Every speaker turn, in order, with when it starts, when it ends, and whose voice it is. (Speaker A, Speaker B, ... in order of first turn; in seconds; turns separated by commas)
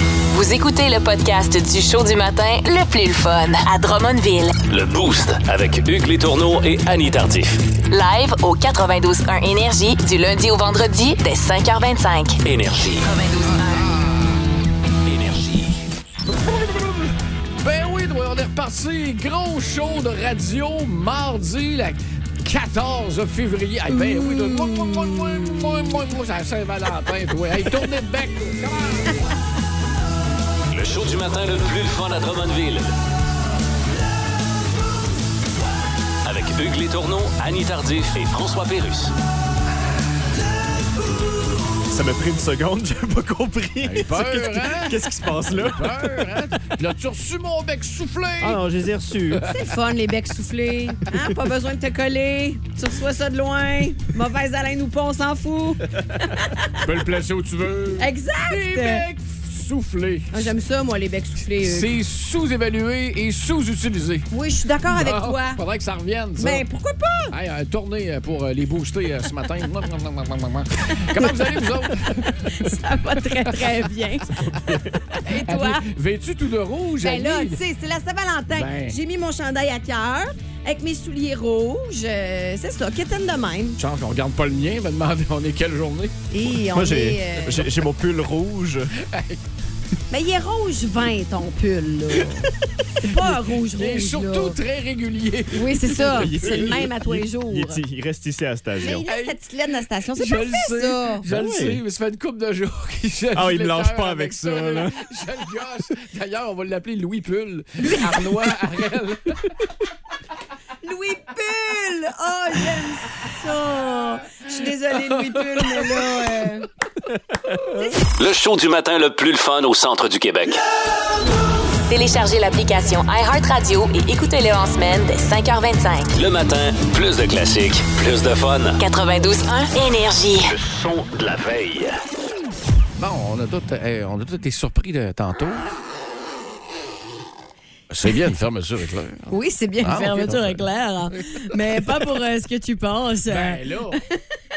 Speaker A: 0.3-4.6, Speaker B: 4.6-7.6, Speaker A: 7.9-12.4, Speaker B: 12.4-13.1, Speaker A: 13.0-13.9, Speaker C: 13.7-14.4, Speaker B: 15.0-15.8, Speaker C: 16.3-29.2, Speaker D: 23.9-25.7, Speaker B: 30.7-32.9, Speaker B: 36.2-39.1, Speaker E: 41.9-46.2, Speaker C: 43.8-48.6, Speaker E: 48.4-49.4, Speaker D: 49.5-56.7, Speaker C: 56.8-60.5, Speaker D: 58.0-59.0, Speaker D: 60.3-61.9, Speaker C: 61.6-64.3, Speaker D: 64.3-65.6, Speaker C: 64.9-66.6, Speaker D: 66.4-67.3, Speaker C: 67.3-72.8, Speaker D: 71.2-71.6, Speaker D: 72.2-75.8, Speaker C: 75.2-77.6, Speaker D: 77.0-83.8, Speaker C: 78.5-79.0, Speaker C: 83.8-86.1, Speaker D: 86.3-87.7, Speaker E: 86.7-88.9, Speaker C: 89.0-89.4, Speaker D: 90.1-92.5, Speaker D: 93.0-94.6, Speaker C: 93.5-96.8, Speaker D: 95.5-97.8, Speaker E: 95.9-99.1, Speaker D: 98.8-101.3, Speaker C: 98.8-99.4, Speaker C: 100.2-109.4, Speaker E: 101.3-101.8, Speaker E: 103.3-105.0, Speaker D: 110.8-116.7, Speaker B: 118.1-120.6, Speaker A: 121.9-126.1, Speaker B: 126.1-128.8, Speaker A: 128.8-130.5, Speaker B: 130.5-132.0, Speaker C: 133.0-135.6, Speaker C: 137.9-140.6, Speaker D: 139.3-144.2, Speaker C: 143.3-144.0